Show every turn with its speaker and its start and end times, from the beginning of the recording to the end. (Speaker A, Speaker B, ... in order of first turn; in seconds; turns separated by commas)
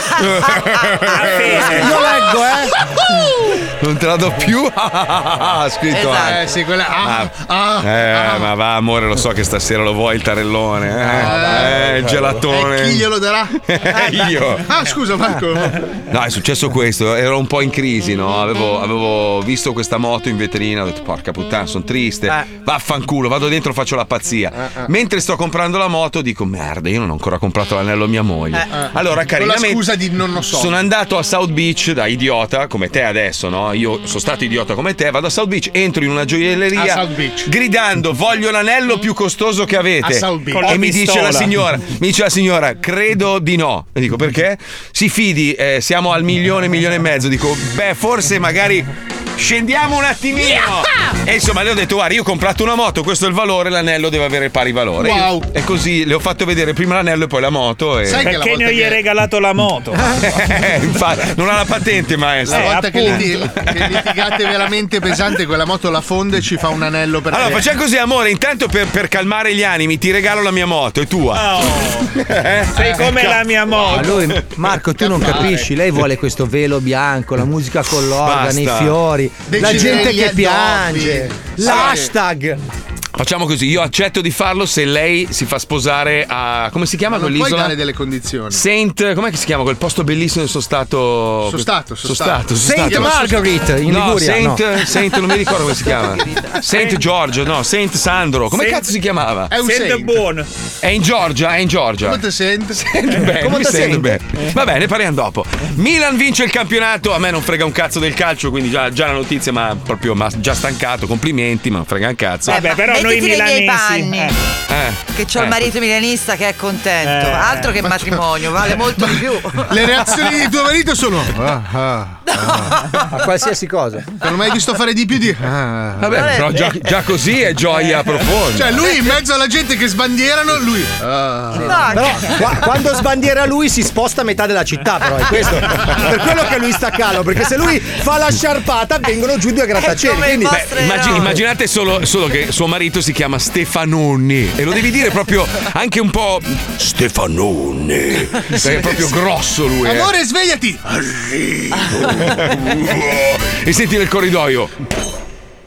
Speaker A: 0.1-1.9, Speaker B: 1.1-2.0, Speaker C: 1.6-2.7, Speaker A: 3.8-6.4, Speaker D: 5.9-6.4, Speaker E: 6.1-8.5, Speaker A: 7.0-13.1, Speaker E: 11.1-13.5, Speaker A: 13.6-14.7, Speaker C: 13.9-14.3, Speaker E: 14.6-15.8, Speaker A: 16.1-29.9, Speaker E: 28.7-30.8, Speaker A: 30.5-58.3, Speaker E: 36.7-37.5, Speaker E: 40.0-40.8, Speaker B: 40.5-41.5, Speaker E: 55.0-55.5, Speaker E: 58.0-59.0, Speaker B: 58.2-60.2, Speaker A: 60.2-64.0, Speaker E: 62.5-67.7, Speaker B: 62.5-63.3, Speaker A: 67.3-74.5, Speaker B: 71.3-72.1, Speaker B: 72.7-74.2, Speaker C: 73.8-82.6, Speaker E: 75.0-75.7, Speaker A: 78.1-79.0, Speaker E: 79.5-82.1, Speaker A: 79.6-80.1, Speaker A: 81.6-82.0, Speaker A: 83.2-87.8, Speaker E: 87.1-88.6, Speaker A: 88.5-93.2, Speaker E: 91.5-93.5, Speaker C: 92.6-94.6, Speaker A: 93.9-99.5, Speaker B: 98.5-98.9, Speaker E: 99.5-100.3, Speaker B: 99.6-100.5, Speaker A: 100.8-102.2, Speaker E: 102.0-102.9, Speaker A: 102.8-112.6, Speaker C: 103.4-104.2, Speaker B: 112.5-114.3, Speaker D: 112.5-114.4, Speaker A: 114.7-115.5, Speaker D: 115.1-119.8, Speaker B: 117.0-117.8, Speaker E: 118.9-122.9, Speaker D: 122.3-122.6, Speaker C: 123.1-124.1, Speaker E: 124.2-126.3, Speaker A: 126.0-128.9, Speaker D: 126.2-126.8, Speaker E: 128.5-132.0, Speaker C: 131.6-140.6, Speaker D: 131.6-132.5, Speaker D: 139.7-141.4, Speaker A: 140.3-150.1, Speaker E: 149.8-152.0, Speaker A: 152.0-154.7